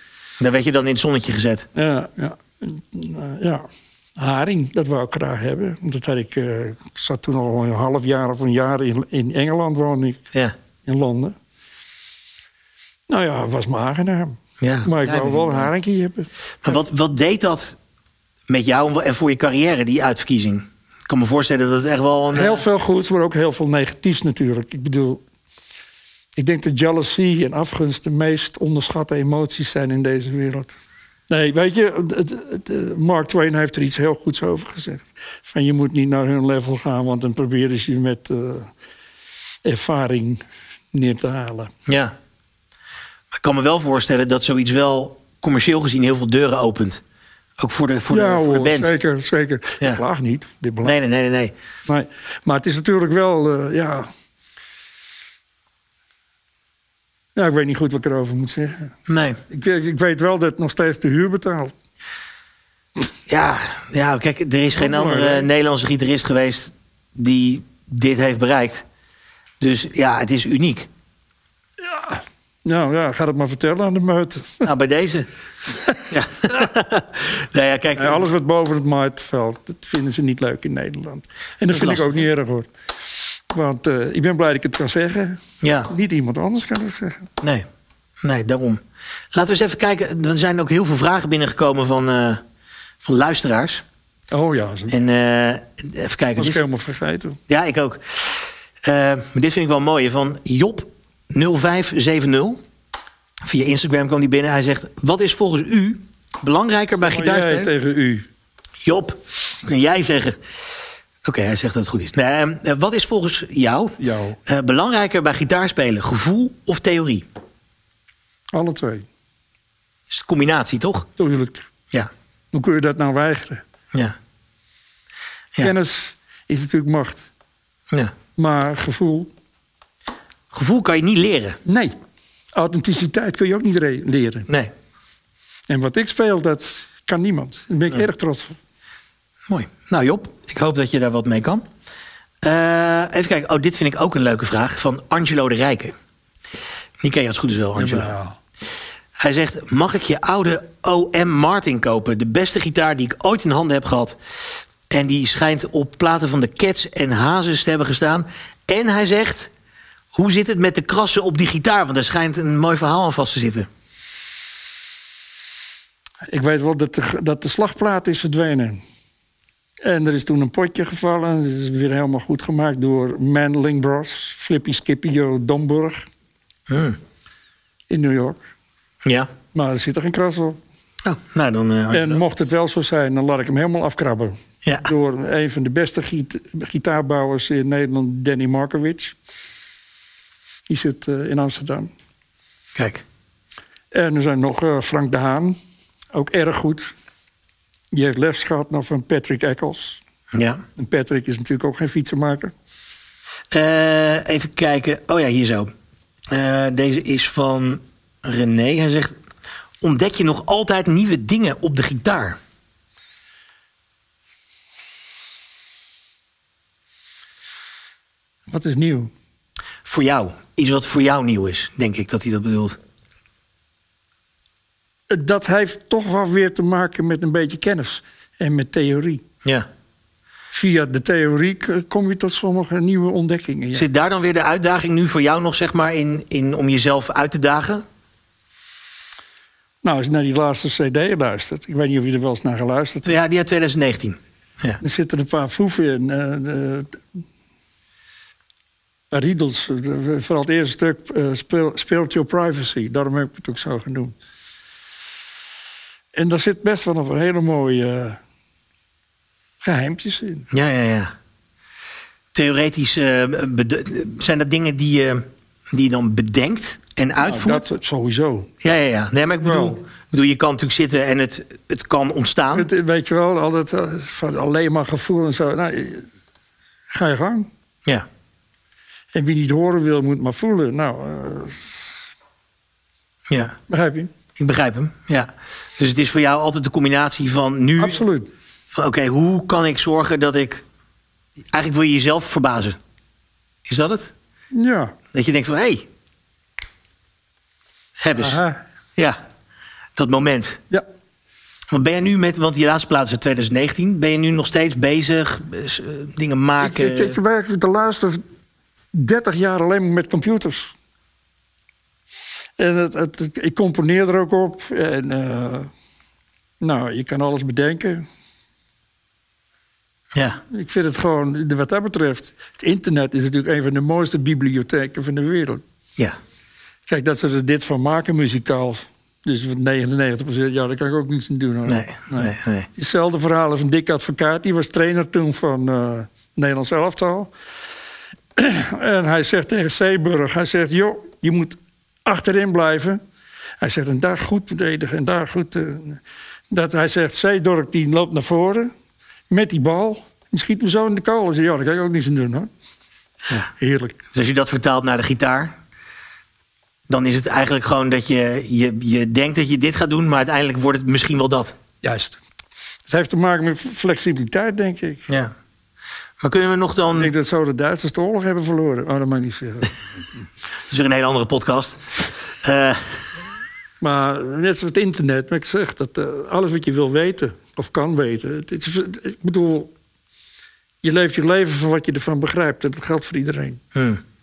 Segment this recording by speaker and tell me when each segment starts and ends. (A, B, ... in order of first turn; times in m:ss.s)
0:00.4-0:01.7 A
0:01.8-0:10.3 B
0:10.9-0:11.4 B
0:13.1-0:16.3 B
0:14.6-0:15.7 A
0:16.6-0:17.8 A
0:18.5-0:22.6 A
0:22.3-0:25.2 B
0:26.4-0:30.8 B
0:31.3-0:38.7 B
0:39.6-0:40.4 B
0:40.9-0:41.7 B
0:41.9-0:42.1 A
0:43.3-0:47.0 A
0:47.6-0:48.9 A
0:48.1-0:51.0 B
0:50.8-0:51.5 A
0:51.9-0:54.1 B
0:57.4-0:58.9 B
0:59.1-0:59.4 A
0:59.5-1:01.7 B
1:03.3-1:08.8 A
1:04.8-1:05.5 B
1:09.6-1:10.9 A
1:11.8-1:14.7 B
1:14.6-1:15.3 A
1:16.1-1:18.2 A
1:18.0-1:22.7 B
1:21.7-1:22.2 A
1:23.5-1:27.3 B
1:25.6-1:25.9 A
1:28.2-1:28.8 A
1:29.3-1:32.4 A
1:33.0-1:33.8 A
1:34.3-1:35.0 B
1:34.9-1:36.6 A
1:36.4-1:37.4 B
1:37.5-1:42.6 A
1:43.4-1:47.7 A
1:47.0-1:48.3 B
1:48.8-1:50.4 A
1:51.2-1:57.3 A
1:54.0-1:54.4 B
1:58.5-1:59.1 B
2:00.1-2:01.1 A
2:01.2-2:01.7 B
2:02.5-2:03.6 B
2:05.6-2:07.3 B
2:08.4-2:09.3 B
2:10.5-2:11.6 A
2:11.6-2:12.0 B
2:12.5-2:14.5 B
2:15.7-2:18.6 B
2:19.5-2:21.7 A
2:22.4-2:25.9 A
2:27.0-2:28.1 A
2:27.8-2:28.4 B
2:29.2-2:39.5 A
2:40.1-2:43.7 A
2:46.3-2:48.8 B
2:49.8-2:56.1 B
2:56.7-2:57.0 A
2:57.9-2:58.5 B
2:59.0-2:59.3 A
2:59.5-3:00.6 B
3:01.0-3:02.2 A
3:01.9-3:09.2 B
3:10.7-3:11.9 B
3:12.8-3:13.0 A
3:13.9-3:15.6 B
3:16.1-3:16.9 B
3:17.9-3:20.0 B
3:20.3-3:20.6 A
3:20.8-3:22.5 B
3:23.5-3:25.7 A
3:26.3-3:29.2 A
3:29.8-3:32.4 A
3:38.5-3:39.1 B
3:39.8-3:42.8 A
3:45.1-3:49.2 B
3:50.5-3:53.9 B
3:53.7-3:57.8 A
3:59.8-4:03.1 B
4:03.0-4:04.8 A
4:04.8-4:07.2 B
4:09.1-4:14.2 B
4:16.2-4:18.2 B
4:19.6-4:20.5 B
4:20.5-4:21.1 A
4:22.3-4:27.7 A
4:27.2-4:28.5 B
4:28.6-4:32.7 A
4:29.4-4:29.8 B
4:32.5-4:36.1 B
4:36.9-4:37.5 B
4:39.1-4:42.0 B
4:43.3-4:43.6 A
4:43.7-4:44.1 B
4:44.4-4:48.0 A
4:47.8-4:48.3 B
4:48.7-4:50.6 A
4:51.5-4:52.8 A
4:53.7-4:54.1 A
4:54.5-4:55.0 B
4:55.1-4:55.9 A
4:58.0-4:58.4 A
4:58.1-4:58.6 B
5:00.0-5:00.6 A
5:01.7-5:07.2 A
5:06.6-5:08.2 B
5:08.9-5:10.7 B
5:12.6-5:15.7 B
5:16.6-5:18.1 B
5:20.1-5:20.4 A
5:20.5-5:25.6 B
5:26.9-5:37.3 B
5:31.7-5:32.7 A
5:38.4-5:43.0 B
5:43.6-5:48.7 B
5:49.3-5:52.5 B
5:53.3-5:54.0 B
5:54.1-5:55.6 A
5:56.9-6:01.6 A
6:01.8-6:02.2 B
6:02.9-6:05.1 B
6:05.1-6:05.3 A
6:06.2-6:07.1 A
6:06.9-6:09.8 B
6:10.7-6:13.1 A
6:13.8-6:19.7 B
6:20.8-6:23.6 B
6:23.7-6:24.0 A